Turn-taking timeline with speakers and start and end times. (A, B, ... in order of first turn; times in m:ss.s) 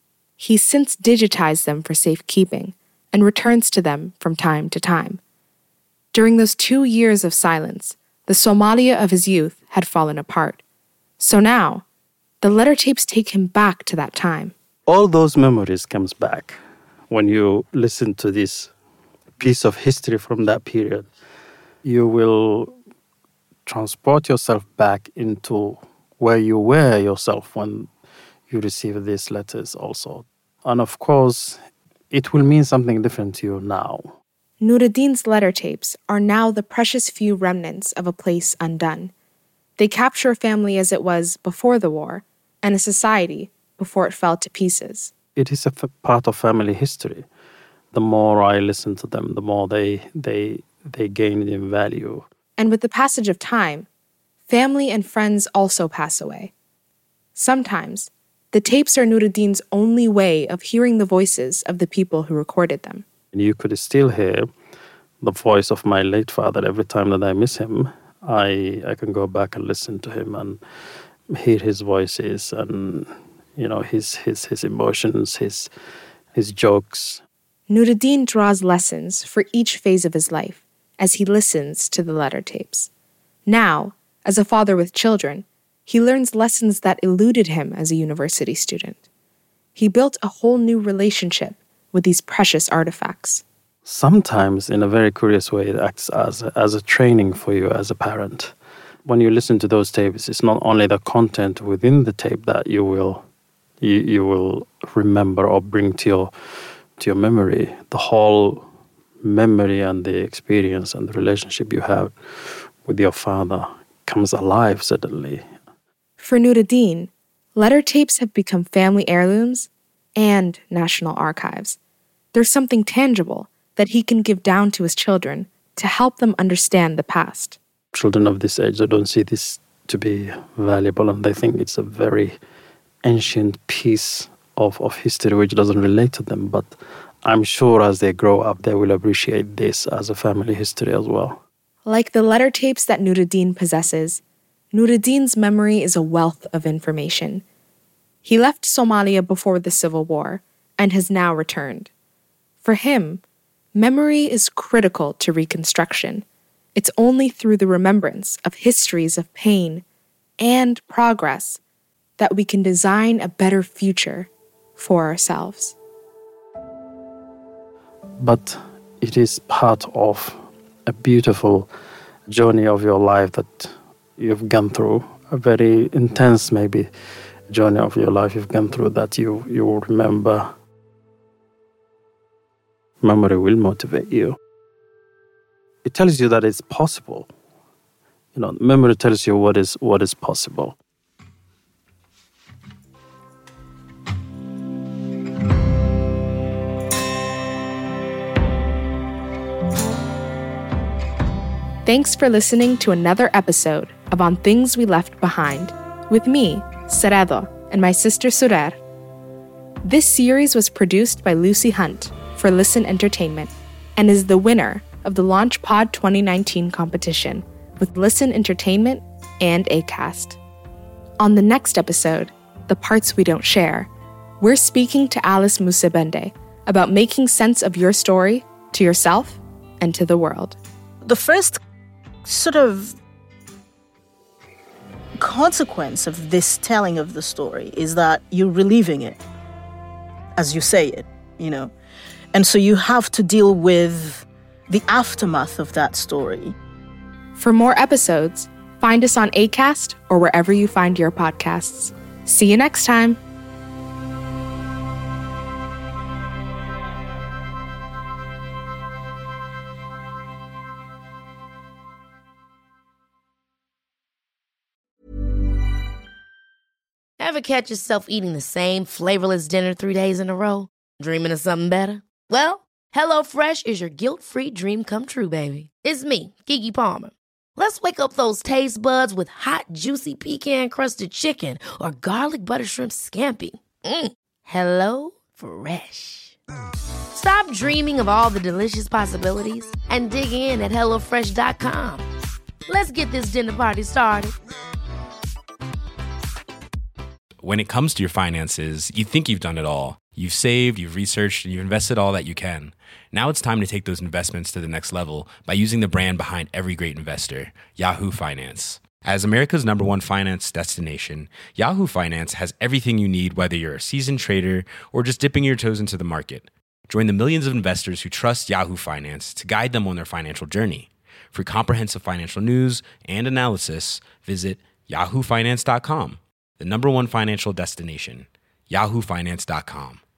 0:00.4-0:05.2 A
0:06.1-0:10.6 A
0:11.2-0:11.8 A
0:12.4-0:14.5 A
0:14.9-0:16.6 B
0:17.1-0:18.7 B
0:19.4-0:21.1 B
0:21.8-0:22.8 B
0:23.6-0:27.9 B
0:28.5-0:31.6 B
0:32.1-0:34.2 B
0:34.6-0:39.1 A
0:39.8-0:45.1 A
0:45.4-0:47.3 B
0:47.9-0:52.2 B
0:52.6-0:53.9 A
0:54.5-0:56.5 A
0:57.3-1:03.0 A
1:03.3-1:04.5 B
1:05.2-1:10.6 B
1:11.3-1:15.7 B
1:16.4-1:17.2 B
1:17.7-1:22.9 A
1:23.5-1:29.0 A
1:29.8-1:33.4 A
1:33.8-1:38.5 B
1:39.0-1:43.2 B
1:43.8-1:46.3 B
1:47.0-1:48.6 B
1:49.2-1:52.1 B
1:52.8-1:55.4 B
1:56.2-2:01.8 A
2:02.3-2:07.6 A
2:07.9-2:12.4 B
2:13.0-2:21.4 B
2:21.8-2:27.4 A
2:28.2-2:31.9 A
2:32.6-2:33.2 A
2:33.7-2:39.8 A
2:40.4-2:41.6 A
2:42.2-2:45.8 A
2:48.2-2:51.7 B
2:52.3-2:56.9 B
2:57.5-3:00.5 B
3:03.0-3:04.4 B
3:05.8-3:07.3 B
3:08.3-3:10.8 B
3:21.8-3:28.8 A
3:29.8-3:40.4 A
3:41.2-3:50.6 A
3:51.0-3:51.6 C
3:52.2-3:53.0 C
3:55.2-3:59.2 C
4:00.4-4:01.7 C
4:02.3-4:06.5 C
4:07.3-4:13.2 A
4:27.2-4:37.1 D
4:37.6-4:39.7 D
4:40.3-4:41.3 D
4:42.6-4:43.4 D
4:49.2-4:52.0 D
4:52.7-4:54.2 D
4:57.4-5:30.0 E